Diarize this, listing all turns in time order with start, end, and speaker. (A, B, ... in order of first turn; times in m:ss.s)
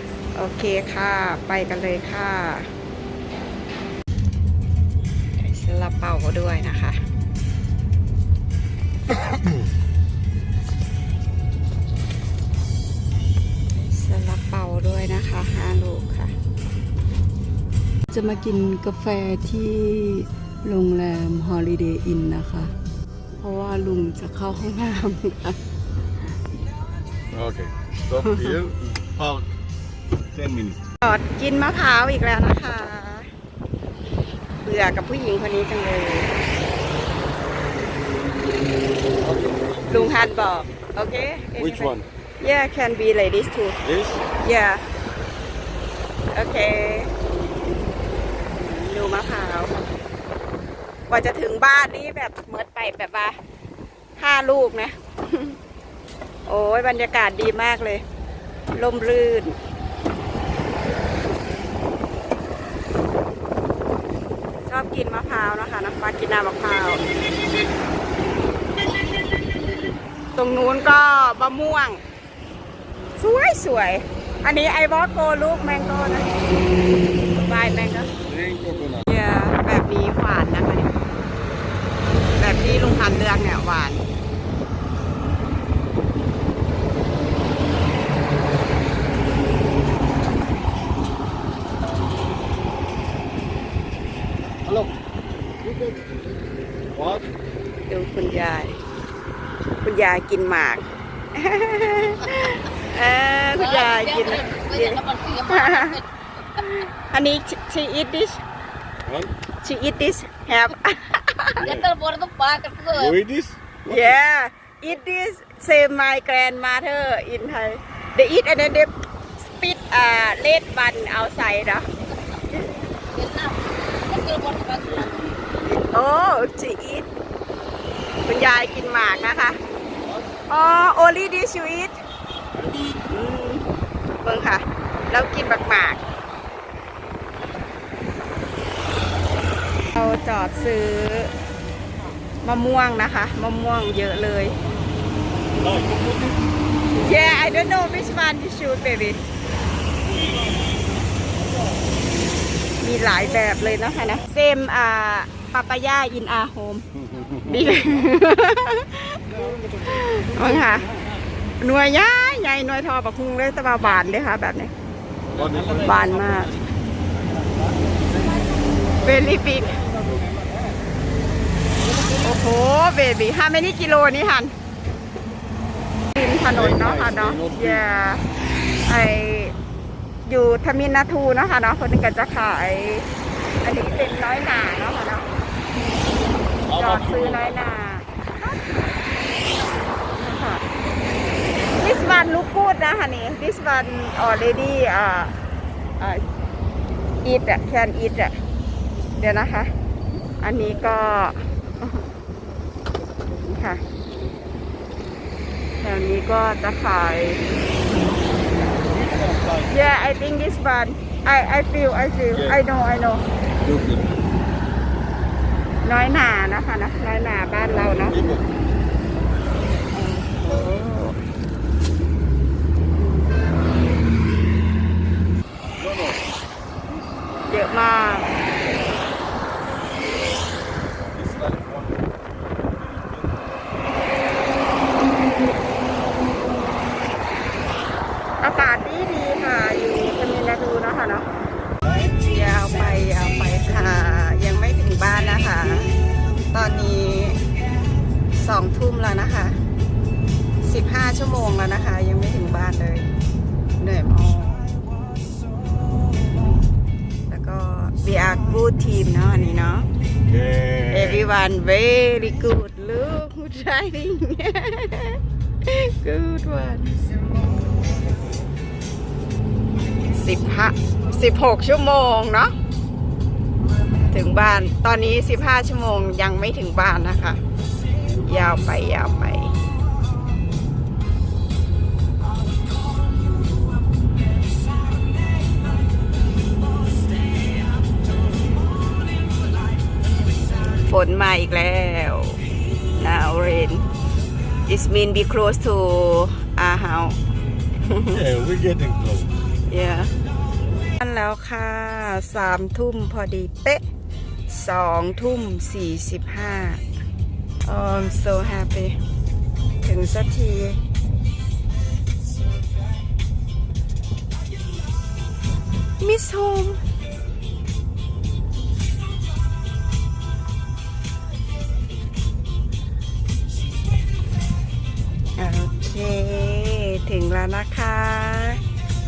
0:00.4-0:02.7 A
0:05.4-0:07.0 A
0:13.7-0:16.3 A
0:18.1-0:22.7 A
0:23.4-0:25.6 A
0:27.3-0:29.5 B
0:30.3-0:30.8 B
0:31.0-0:33.3 A
0:34.6-0:36.4 A
0:39.2-0:40.1 B
0:39.9-0:43.8 A
0:41.6-0:42.1 B
0:43.8-0:44.2 B
0:44.4-0:44.8 A
0:46.3-0:47.1 A
0:48.6-0:49.9 A
0:51.1-0:53.4 A
0:54.2-0:55.6 A
0:56.5-0:58.0 A
0:58.8-0:59.6 A
1:04.7-1:07.0 A
1:10.4-1:12.0 A
1:13.2-1:16.4 A
1:17.3-1:18.1 A
1:18.2-1:19.0 B
1:19.1-1:21.0 A
1:22.4-1:24.0 A
1:34.7-1:34.9 B
1:35.6-1:36.2 B
1:36.9-1:37.3 B
1:37.9-1:38.8 A
1:39.8-1:46.0 A
1:43.6-1:46.0 C
1:46.6-1:48.4 A
1:49.1-1:49.3 B
1:49.6-1:51.7 A
1:51.6-1:53.2 C
1:51.6-1:51.9 B
1:52.9-1:54.2 B
1:53.8-2:01.9 A
2:03.1-2:05.3 C
2:05.6-2:07.1 A
2:08.2-2:09.6 A
2:10.0-2:10.3 B
2:10.5-2:12.0 A
2:13.1-2:13.7 A
2:14.2-2:16.0 A
2:19.9-2:21.3 A
2:22.4-2:24.6 A
2:25.6-2:26.4 B
2:26.9-2:29.2 A
2:32.8-2:36.8 A
2:37.1-2:38.0 B
2:37.4-2:40.9 A
2:39.4-2:39.8 B
2:41.6-2:44.7 A
2:45.3-2:46.1 B
2:45.7-2:46.6 A
2:49.0-2:49.9 A
2:49.9-2:50.7 B
2:52.0-2:54.5 A
2:56.2-2:58.2 A
2:56.5-2:57.8 B
2:58.8-2:59.5 A
3:00.3-3:03.1 A
3:03.6-3:05.3 A
3:06.7-3:07.6 B
3:06.7-3:08.1 A
3:10.1-3:10.6 A
3:11.8-3:15.3 A
3:16.0-3:16.2 A
3:17.2-3:18.4 A
3:19.2-3:19.7 A
3:20.4-3:22.0 A
3:23.5-3:23.8 A
3:25.8-3:27.4 A
3:28.9-3:29.9 B
3:29.7-3:33.2 A
3:32.3-3:32.6 B
3:33.6-3:34.1 B
3:35.8-3:38.4 A
3:38.1-3:38.5 B
3:39.9-3:41.2 A
3:45.8-3:46.2 B
3:47.5-3:48.3 A
3:51.0-3:53.9 B
3:58.4-4:01.3 A
4:02.0-4:05.9 A
4:06.5-4:07.4 A
4:08.3-4:09.6 A
4:10.6-4:13.1 A
4:13.8-4:14.7 A
4:17.3-4:19.9 A
4:20.3-4:21.3 B
4:20.9-4:27.0 A
4:30.1-4:32.5 A
4:34.1-4:37.4 A
4:38.2-4:39.6 A
4:50.6-4:52.4 A
4:53.0-4:53.9 A
4:54.7-4:57.2 A
4:57.8-4:58.2 A
4:58.1-4:59.4 B
4:59.7-5:00.1 A
5:01.0-5:03.8 A
5:04.5-5:06.8 A
5:07.6-5:09.0 A
5:09.8-5:10.8 A
5:16.0-5:16.8 A
5:25.4-5:28.6 A